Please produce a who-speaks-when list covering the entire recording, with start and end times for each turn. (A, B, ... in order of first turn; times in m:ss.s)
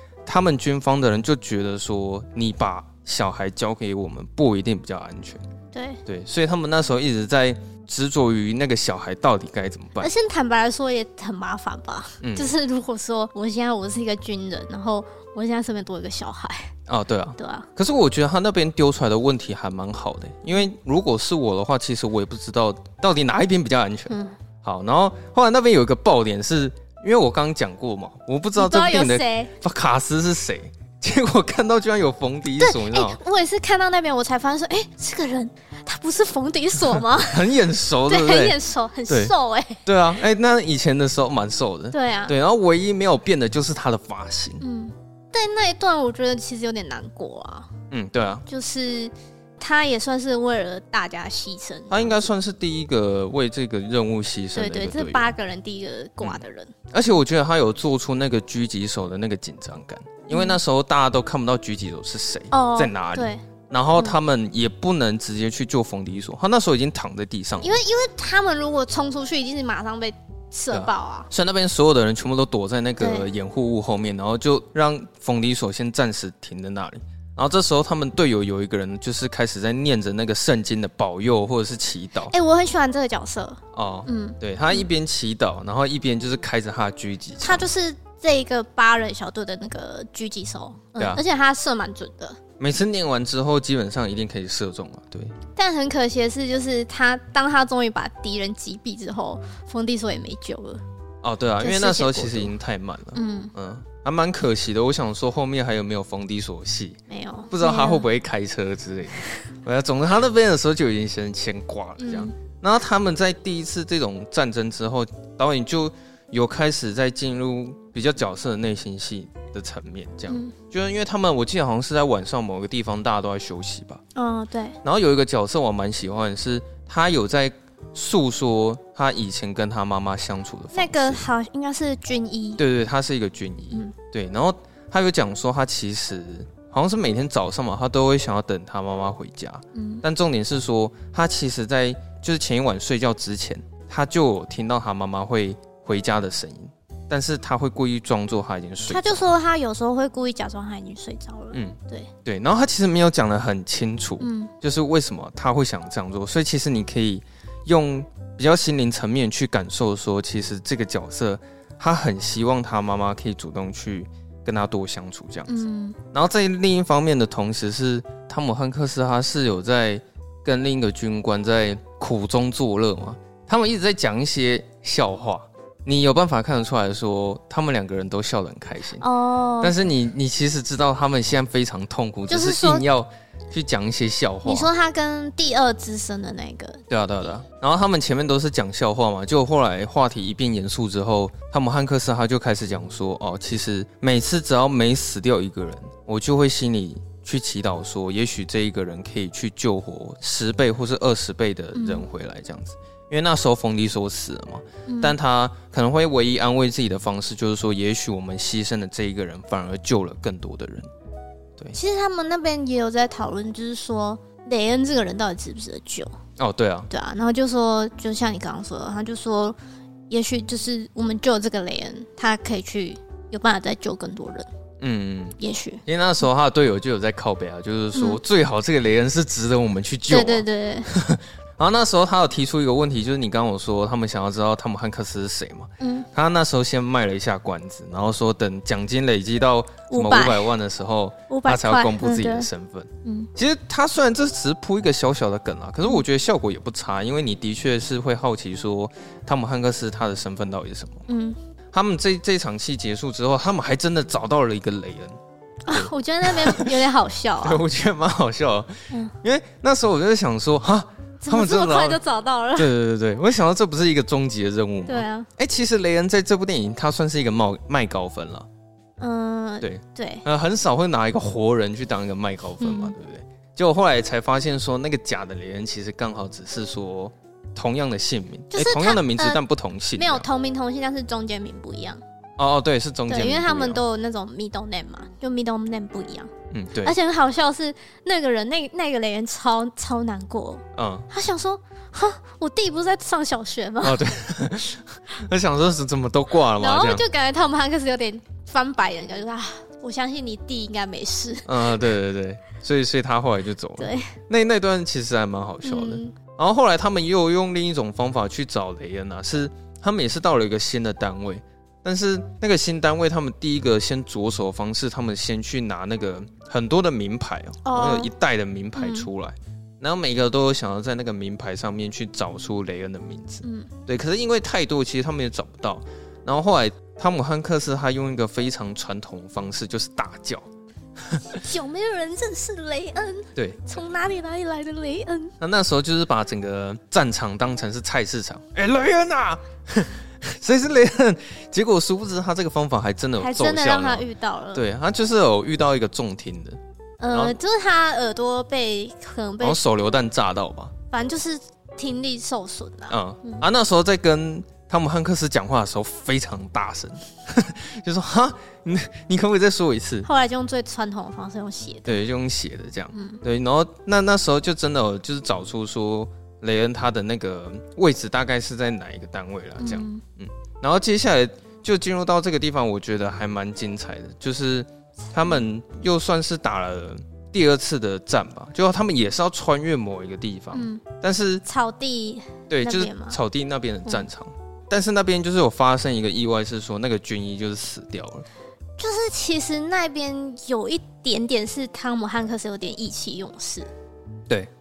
0:00.2-0:05.4 A
0:05.7-0:06.0 B
0:06.0-0:10.1 A
0:10.0-0:16.7 B
0:12.2-0:12.5 A
0:16.9-0:33.2 A
0:17.4-0:17.7 B
0:24.1-0:24.3 B
0:28.6-0:29.5 B
0:32.6-0:37.5 B
0:36.9-0:38.6 A
0:38.0-0:39.8 B
0:39.1-0:39.3 A
0:39.8-0:44.6 A
0:41.9-0:42.3 B
0:44.6-0:47.7 B
0:47.9-0:48.4 A
0:48.5-0:52.2 B
0:51.9-0:55.3 A
0:54.5-0:56.7 B
0:56.2-1:07.8 A
1:00.3-1:00.6 B
1:02.5-1:03.4 B
1:07.6-1:11.3 B
1:10.7-1:22.3 A
1:13.0-1:13.3 B
1:22.3-1:24.8 B
1:23.7-1:27.6 A
1:27.4-1:32.4 B
1:31.0-1:31.2 A
1:32.6-1:35.3 A
1:35.6-1:40.8 B
1:41.2-2:04.0 A
1:41.6-1:42.5 B
1:43.1-1:43.5 B
1:47.1-1:48.1 B
1:52.0-1:52.3 B
2:00.3-2:00.5 B
2:04.1-2:04.8 B
2:04.8-2:11.3 A
2:10.7-2:12.6 B
2:12.6-2:29.3 A
2:19.7-2:20.0 B
2:28.9-2:32.1 B
2:31.5-2:45.6 A
2:34.2-2:34.5 B
2:45.5-2:46.0 B
2:46.1-2:59.0 A
2:59.0-2:59.8 B
2:59.6-3:04.7 A
3:02.3-3:02.8 B
3:04.4-3:06.8 B
3:06.9-3:30.9 A
3:21.7-3:22.0 B
3:24.9-3:25.2 B
3:31.7-3:36.1 B
3:36.4-3:36.9 A
3:36.9-3:39.6 B
3:40.1-3:44.5 B
3:44.8-4:11.0 A
3:45.4-3:45.8 B
3:50.1-3:50.9 B
3:55.8-3:56.1 B
3:59.9-4:00.5 B
4:01.3-4:02.5 B
4:03.0-4:03.3 B
4:11.1-4:11.4 B
4:11.7-4:15.2 A
4:15.6-4:17.6 B
4:15.7-4:16.8 A
4:17.4-4:22.0 A
4:21.2-4:22.7 B
4:22.6-4:28.5 A
4:24.9-4:25.3 B
4:29.0-4:30.2 B
4:29.6-4:40.2 A
4:32.6-4:32.9 B
4:38.5-4:39.4 B
4:40.0-4:42.0 B
4:42.4-4:43.8 A
4:43.1-4:46.3 B
4:46.5-4:47.0 A
4:46.8-4:54.0 B
4:50.8-4:51.1 A
4:53.8-4:57.0 A
4:56.6-5:01.6 B
5:01.4-5:30.5 A
5:03.8-5:04.1 B
5:05.6-5:06.2 B
5:17.6-5:18.1 B
5:18.8-5:19.1 B
5:23.4-5:23.7 B
5:31.0-5:31.4 A
5:31.3-5:35.3 B
5:33.4-5:33.7 A
5:35.4-5:47.4 A
5:43.2-5:44.6 B
5:47.0-5:49.6 B
5:49.4-5:50.7 A
5:50.9-5:53.4 B
5:52.9-6:00.1 A
6:00.0-6:02.0 B
6:01.8-6:21.4 A
6:02.9-6:03.2 B
6:09.6-6:10.0 B
6:20.5-6:20.8 B
6:21.4-6:23.2 B
6:22.5-6:28.2 A
6:28.8-6:33.7 B